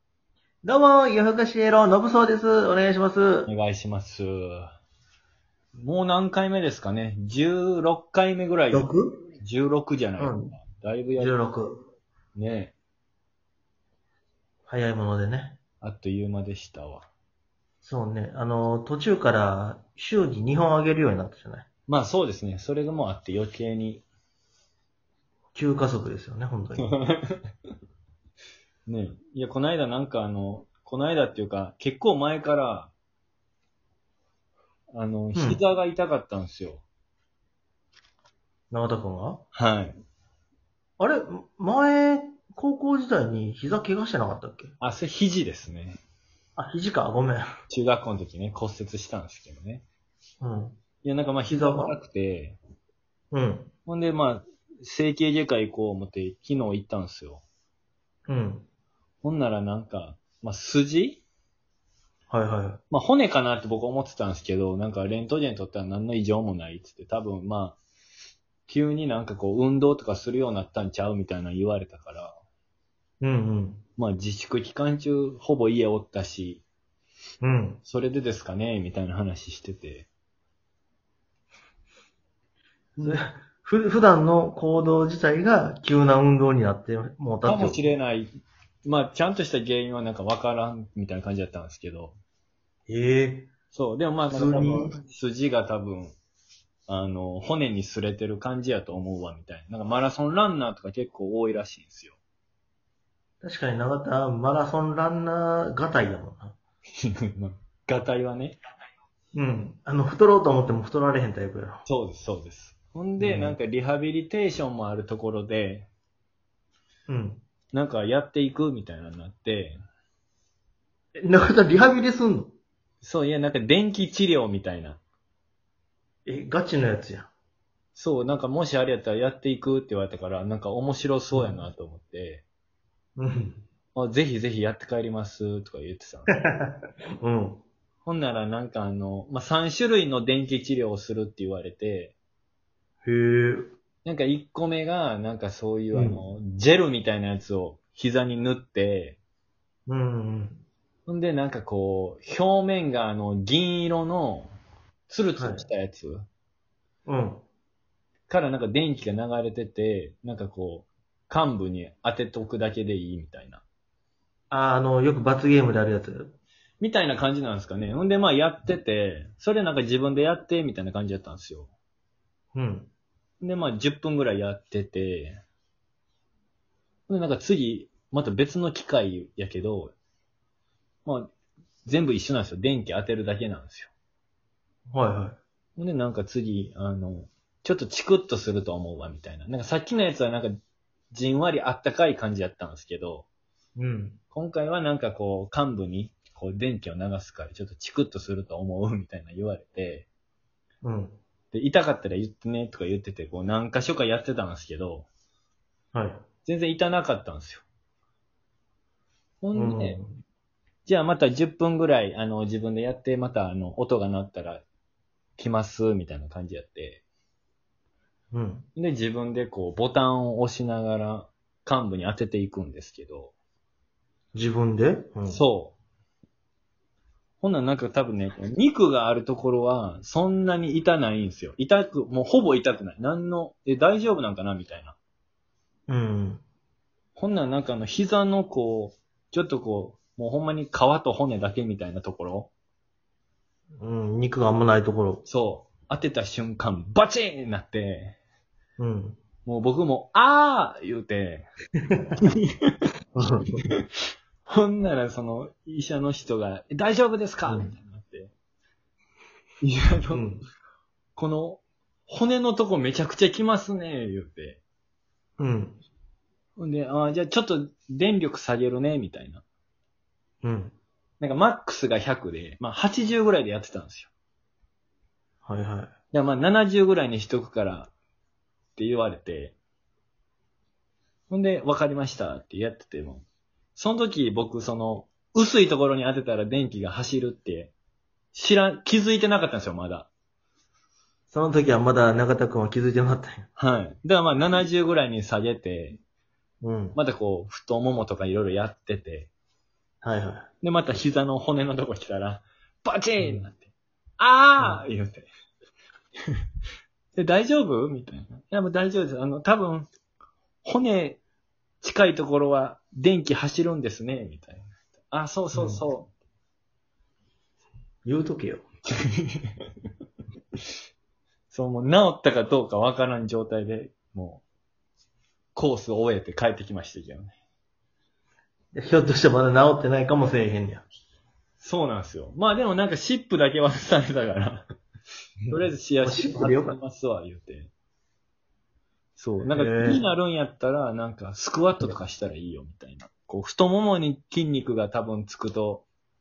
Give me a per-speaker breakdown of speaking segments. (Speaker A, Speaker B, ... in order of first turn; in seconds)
Speaker A: 0.6-3.5, 8.7-9.2, 10.2-10.6, 11.2-11.8, 14.7-15.6, 17.8-21.6, 25.5-26.9, 35.3-35.6, 38.7-39.4, 41.0-44.7, 46.6-47.5, 50.4-50.8, 51.5-51.9, 53.3-53.7, 58.3-58.7, 62.3-62.8, 73.2-73.8, 77.4-77.8, 83.0-87.8, 92.9-93.5, 94.3-95.0, 103.4-106.6, 109.3-111.8, 113.2-113.6, 117.1-117.4, 121.2-122.5, 126.2-127.3, 131.3-131.6, 133.2-133.6, 136.3-137.6, 143.0-143.8, 145.9-146.2, 149.9-150.6, 155.4-155.7, 157.1-157.4, 164.5-166.3, 172.5-172.9, 184.9-185.4, 193.8-194.2, 200.8-201.2, 205.9-206.2, 209.5-210.2, 218.3-218.7, 224.3-225.4, 235.9-236.4, 243.8-245.2, 248.8-249.2, 253.1-253.6, 257.4-257.7, 260.1-260.4, 265.4-265.8, 270.4-270.7, 275.4-275.9, 291.3-293.5, 296.6-297.0, 300.0-300.5, 315.5-315.8, 318.0-318.6, 328.7-330.8, 335.4-336.8, 339.5-340.0
Speaker B: 3.5-4.7, 5.8-11.4, 12.3-12.7, 15.8-17.1, 21.9-24.0, 26.8-27.4, 28.9-32.9, 34.9-36.8, 39.5-40.0, 44.8-46.0, 47.7-49.8, 51.0-52.6, 53.9-57.4, 59.2-61.2, 62.9-67.8, 68.7-72.3, 74.0-76.6, 77.8-80.1, 87.4-88.3, 88.8-92.2, 93.7-96.2, 96.9-102.2, 107.2-108.6, 111.8-115.9, 117.7-119.8, 123.0-125.0, 128.0-132.4, 133.9-136.4, 138.0-142.1, 144.0-149.2, 151.1-154.5, 155.1-156.2, 158.3-163.6, 166.8-171.7, 173.4-175.4, 177.1-179.9, 181.0-181.3, 181.8-183.9, 185.8-190.5, 191.1-193.3, 194.3-200.1, 201.5-205.1, 206.4-207.6, 209.4-210.0, 210.8-214.6, 215.4-217.0, 218.8-223.3, 225.3-225.8, 227.4-234.9, 237.2-242.5, 245.2-248.2, 249.4-251.5, 254.4-258.3, 259.6-260.2, 261.1-264.6, 266.6-269.4, 271.2-274.1, 276.1-277.9, 278.8-279.6, 281.3-283.2, 283.8-287.7, 288.3-290.1, 293.6-296.0, 296.9-299.3, 300.6-305.3, 307.1-309.9, 310.6-311.2, 311.8-316.1, 319.1-319.5, 321.5-324.4, 325.5-327.3, 331.6-334.6, 335.5-337.7, 339.2-345.9